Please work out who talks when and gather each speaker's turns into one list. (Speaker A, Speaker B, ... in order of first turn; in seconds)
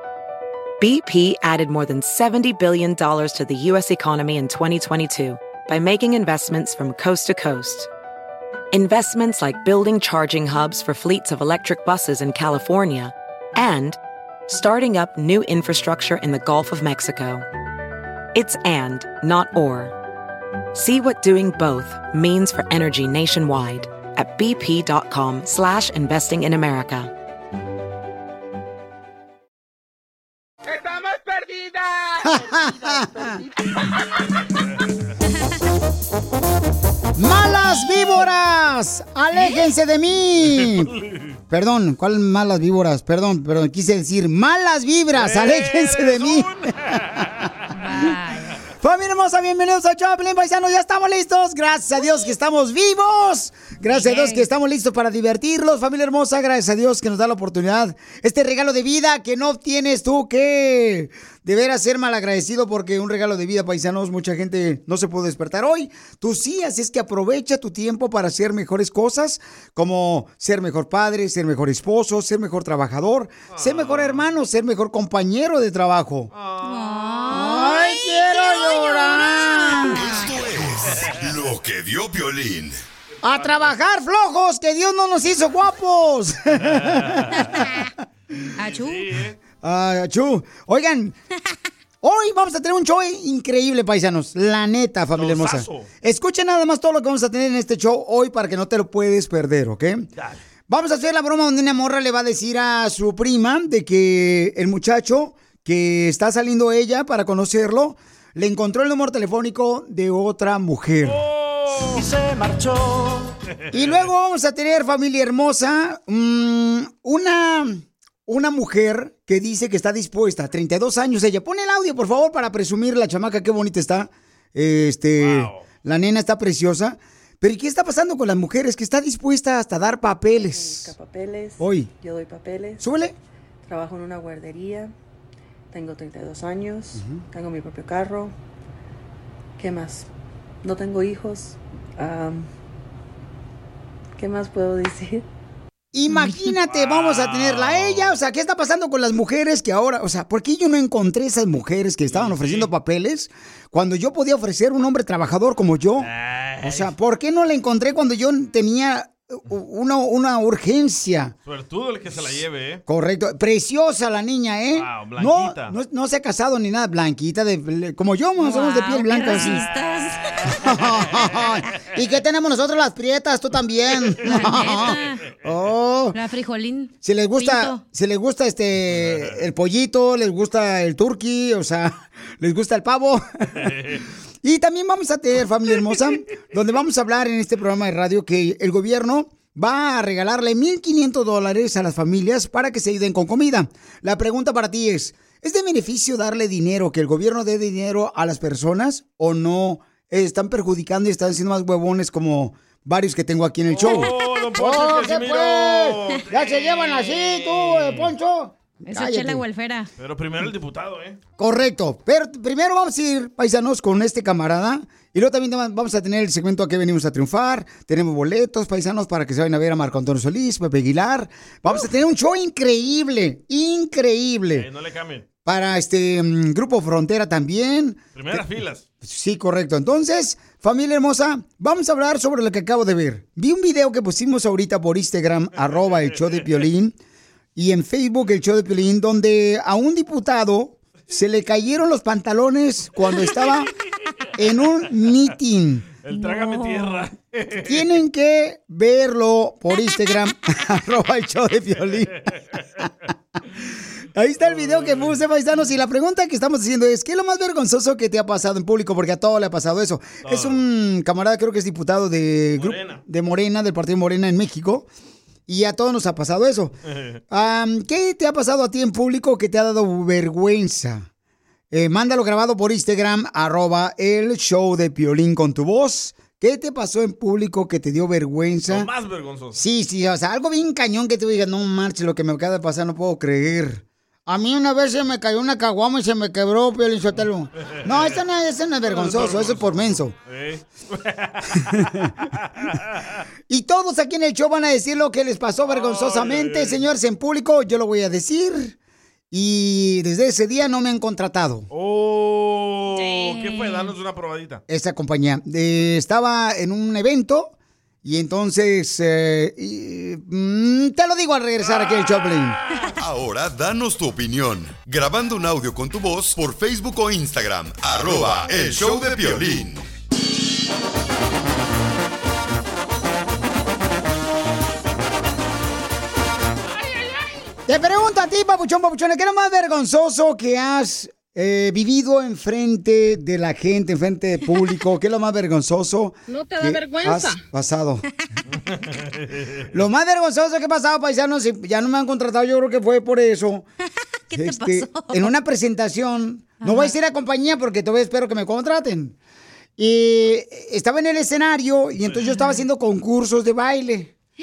Speaker A: 0.8-7.9, 8.7-14.0, 14.5-17.4, 18.3-19.9, 20.7-27.1
Speaker B: 32.2-33.4, 37.2-40.9, 41.5-46.5, 48.8-76.3, 77.3-80.0, 83.2-87.9, 89.6-91.2, 92.0-100.1, 100.7-111.2, 113.7-130.9, 131.6-131.9, 132.8-133.2, 136.9-137.2, 145.9-156.1, 156.6-161.3, 162.9-169.6, 170.5-176.2, 177.0-183.7, 184.4-209.4, 211.4-224.7, 225.4-228.4, 229.0-236.9, 237.6-243.7, 244.4-245.8, 247.6-252.1, 254.1-264.9, 265.5-266.7, 267.3-271.1, 271.7-278.9, 279.5-290.1, 293.5-298.8, 299.3-301.7, 304.7-312.6, 327.7-338.0, 339.7-343.7, 344.3-349.1, 349.8-354.1
Speaker C: 40.5-41.4, 45.1-47.5, 73.5-74.2, 76.3-77.3, 80.9-81.2, 83.2-83.7, 86.6-87.6, 88.7-89.4, 95.1-95.9, 100.2-100.4, 111.0-112.1, 113.7-114.1, 125.2-125.7, 146.7-148.2, 152.1-152.7, 156.0-156.9, 161.4-162.8, 164.7-165.8, 169.2-169.8, 170.3-171.6, 173.9-175.0, 178.9-179.4, 183.6-184.0, 203.7-208.1, 210.0-211.2, 224.5-225.2, 228.1-228.8, 235.6-236.5, 243.1-243.5, 246.0-247.9, 254.4-255.2, 260.2-260.6, 262.5-263.0, 266.9-267.2, 278.7-279.6, 287.6-288.2, 288.8-293.2, 295.6-296.8, 301.7-304.6, 311.8-312.4, 338.5-339.7, 352.0-352.4
Speaker D: 47.7-48.6, 53.9-54.5, 76.6-80.3, 88.6-89.0, 168.4-170.6, 174.3-175.2, 176.1-177.8, 208.8-209.9, 246.1-247.1, 302.9-303.9, 344.3-345.3, 346.6-346.9
Speaker E: 79.9-82.8, 313.0-319.8
Speaker F: 130.3-132.8, 133.6-134.9, 135.7-138.3, 139.6-140.1, 140.6-142.5, 144.2-145.2